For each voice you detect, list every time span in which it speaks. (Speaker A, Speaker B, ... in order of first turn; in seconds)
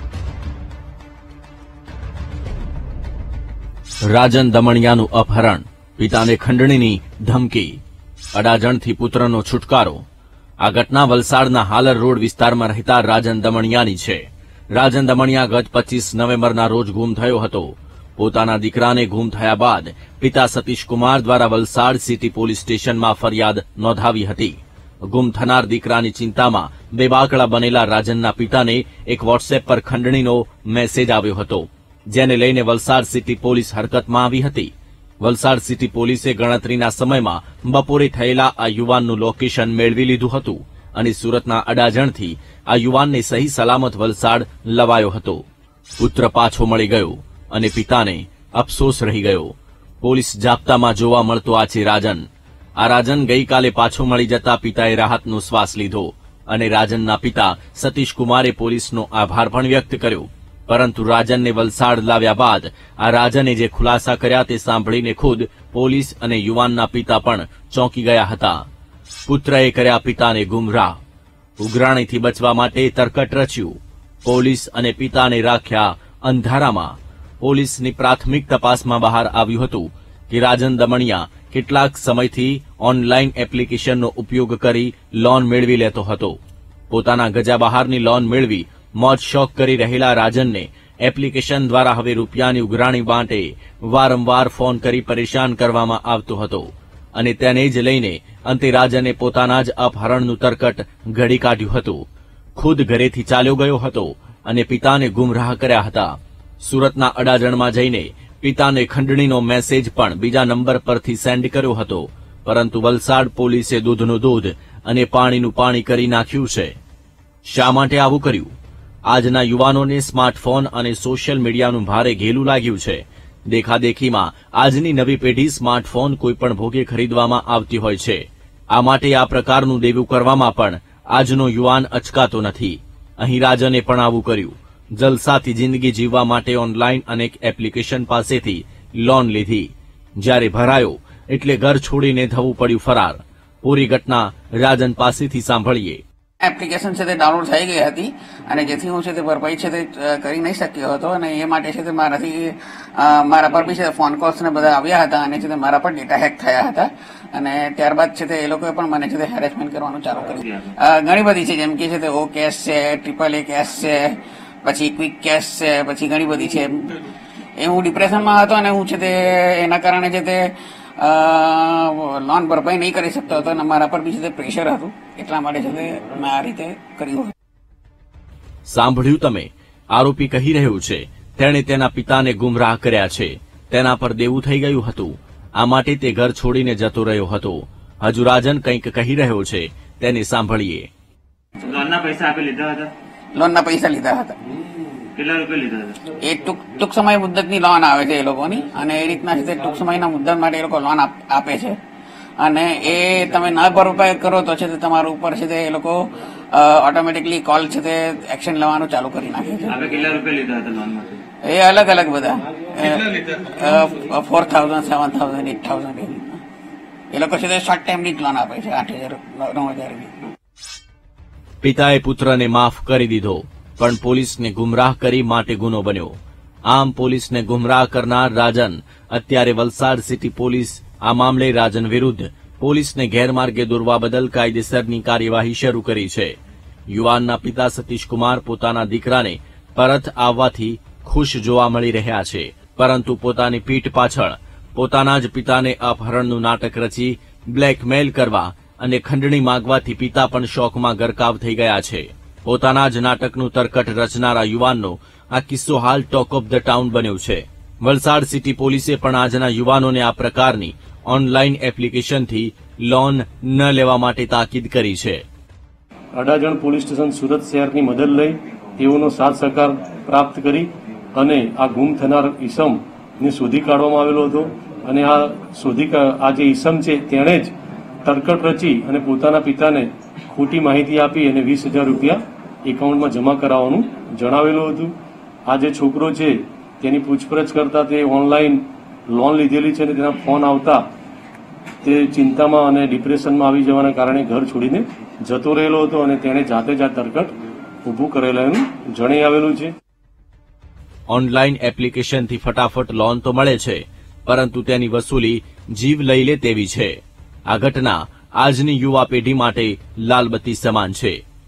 Speaker A: 4.1-7.8, 8.3-10.0, 10.6-14.2, 14.8-45.4, 46.0-52.2, 52.8-68.6, 69.2-71.0, 71.6-86.3, 86.9-102.0, 102.5-116.7, 117.5-118.5, 119.1-128.2, 128.7-139.7, 140.2-146.0, 178.7-190.9, 221.6-226.1, 226.7-236.3, 236.9-265.2, 301.1-306.9, 307.5-311.2
Speaker B: 146.4-166.9, 167.6-177.3, 193.3-194.3, 196.1-201.8, 202.4-206.0, 206.5-209.9, 211.4-216.4, 217.1-220.1
Speaker C: 160.4-160.7, 191.6-192.9, 195.2-196.0, 209.7-211.1
Speaker D: 266.2-277.5, 278.0-284.9, 285.5-290.8, 291.8-297.3, 297.9-299.7